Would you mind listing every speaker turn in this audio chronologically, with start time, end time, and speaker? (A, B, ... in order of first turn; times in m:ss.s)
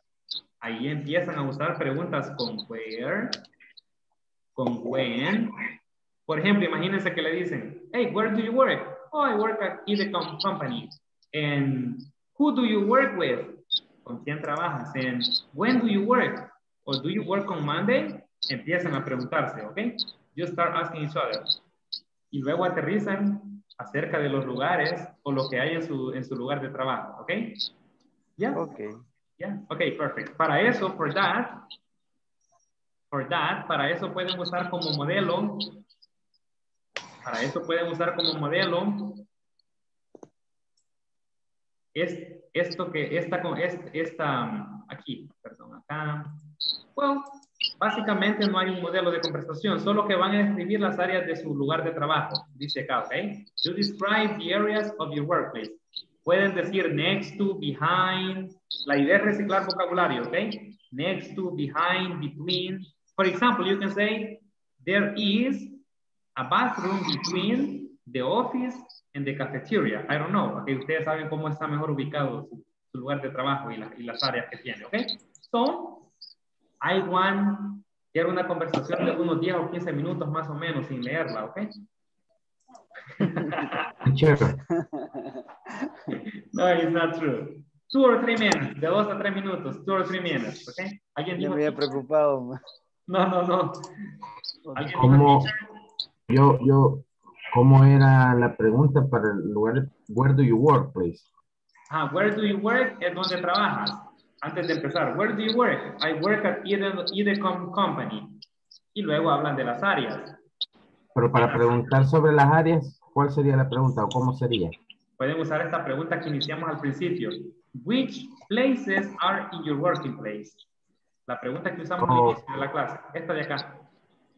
0:00.6-0:03.4 A
0:04.6-0:05.6 A
0:06.3-0:21.6 A
0:22.3-0:27.6 A
0:28.4-0:28.6 A
0:28.5-0:29.0 B
0:29.4-0:31.7 A
0:33.1-0:35.8 A
0:37.2-0:39.2 A
0:41.9-0:46.4 A
0:46.9-1:05.8 A
1:06.4-1:16.1 A
1:16.8-1:21.7 A
1:23.2-1:23.9 A
1:24.0-1:24.6 C
1:24.7-1:25.9 B
1:26.1-1:32.0 A
1:31.4-1:32.5 B
1:33.1-1:33.9 A
1:34.7-1:35.0 B
1:34.8-1:35.6 A
1:35.0-1:35.5 C
1:36.3-1:41.2 C
1:41.9-1:48.4 A
1:48.9-1:50.4 A
1:51.1-1:54.8 C
1:51.4-1:51.9 A
1:55.2-2:00.6 A
2:01.3-2:03.8 A
2:02.0-2:02.4 C